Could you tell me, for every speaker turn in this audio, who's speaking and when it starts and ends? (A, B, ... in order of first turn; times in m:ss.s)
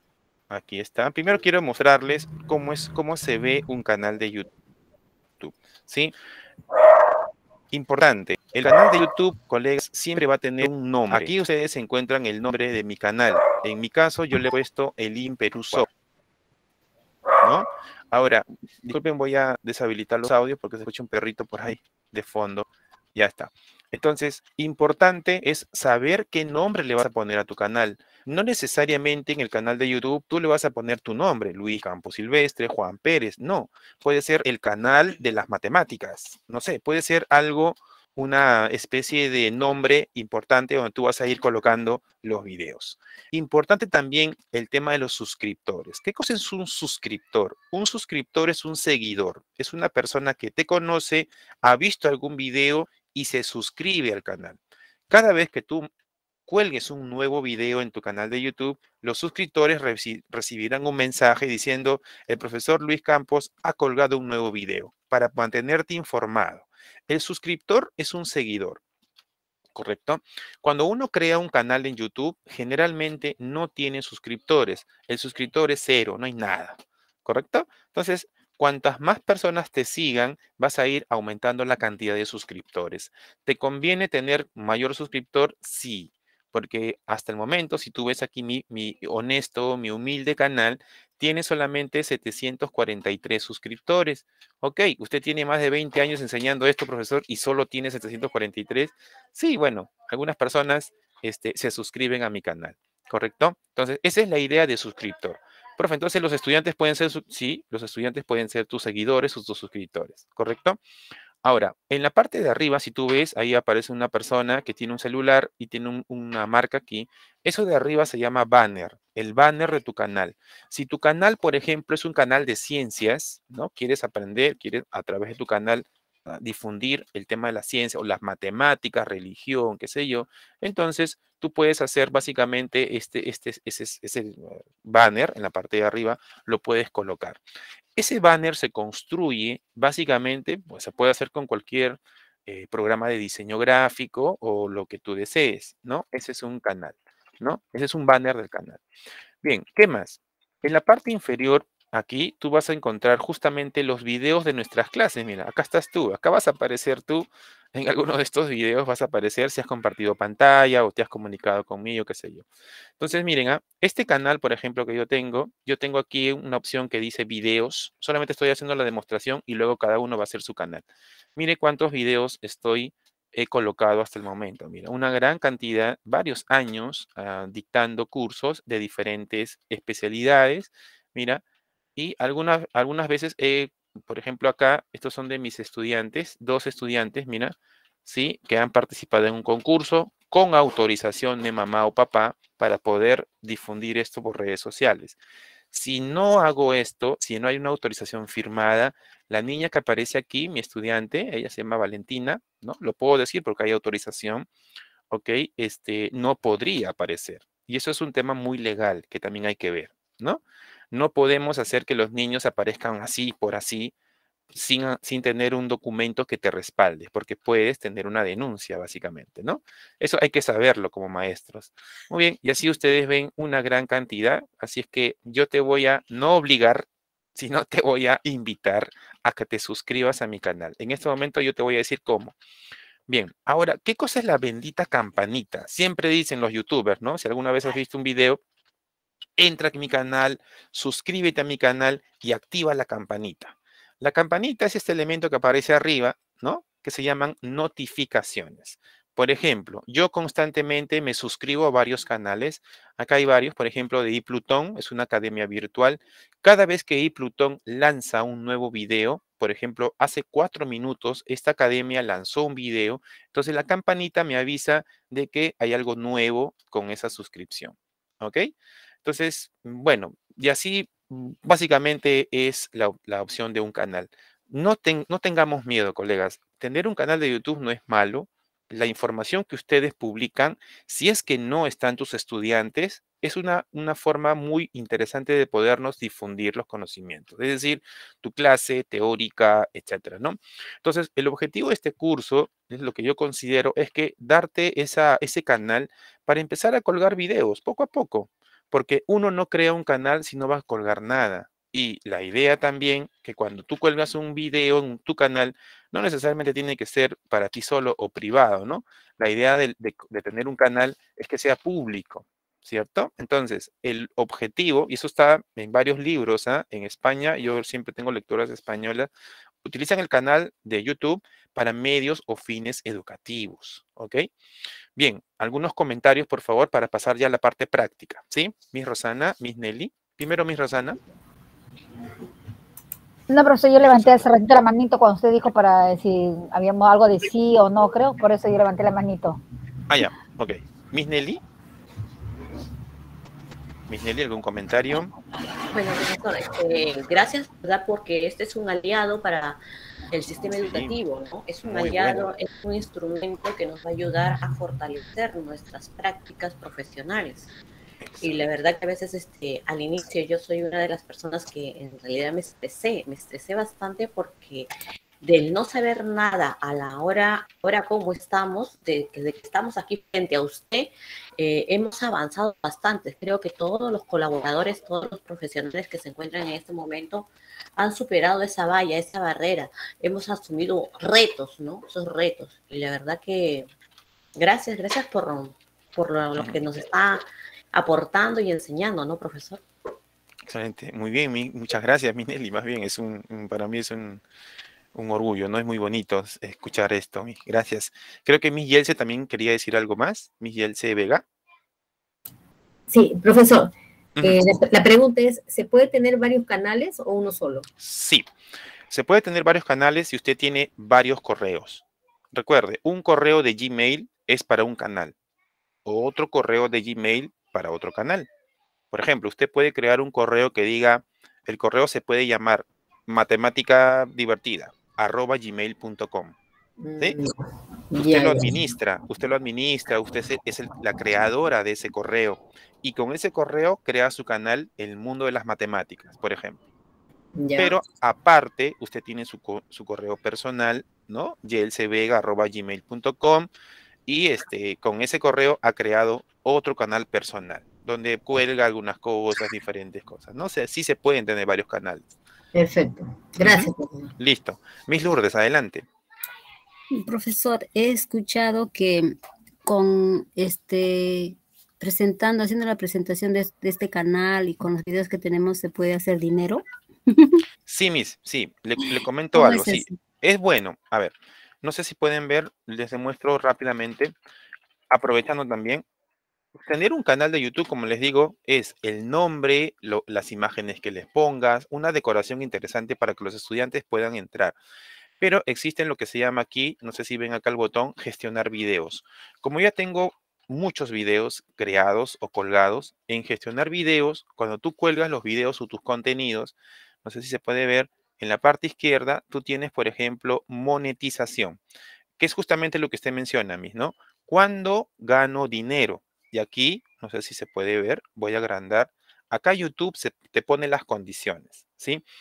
0:00.5-0:04.5 A
0:05.4-0:06.1 A
0:07.7-0:15.9 A
0:17.4-0:54.6 A
0:55.1-0:55.9 A
0:56.5-1:08.8 A
1:09.8-1:50.8 A
1:51.4-2:17.4 A
2:18.0-2:28.8 A
2:29.4-2:42.5 A
2:43.0-2:50.8 A
2:51.4-3:01.4 A
3:02.0-3:15.2 A
3:15.7-3:24.5 A
3:25.1-3:33.9 A
3:34.5-3:52.4 A
3:53.1-3:58.4 A
3:59.4-4:28.5 A
4:29.0-5:19.1 A
5:19.6-5:24.3 A
5:25.0-5:31.0 A
5:33.3-5:39.4 B
5:33.8-5:34.3 A
5:39.9-5:41.4 A
5:43.9-5:45.1 A
5:45.7-5:49.6 C
5:50.1-5:57.5 C
5:50.6-5:51.0 A
5:51.6-5:52.3 A
5:58.0-5:58.4 A
5:58.2-6:04.7 C
6:05.2-6:23.7 C
6:24.4-6:27.2 C
6:26.4-6:26.6 A
6:27.7-6:29.6 C
6:30.5-6:34.2 A
6:35.0-6:41.2 A
6:42.9-6:47.7 D
6:47.8-6:48.3 A
6:48.9-6:55.1 A
6:55.8-6:58.3 A
6:58.9-7:06.4 A
7:06.8-7:07.3 D
7:07.9-7:08.6 D
7:08.0-7:16.6 A
7:17.4-7:17.8 D
7:17.6-7:23.5 A
7:24.1-7:32.0 A
7:32.6-7:34.1 D
7:33.4-7:35.9 A
7:37.0-7:39.2 E
7:39.7-7:46.6 E
7:47.7-7:54.1 A
7:49.4-7:49.8 E
7:54.9-7:55.8 A
7:56.6-8:04.6 A
8:05.2-8:21.6 A
8:22.2-8:32.0 A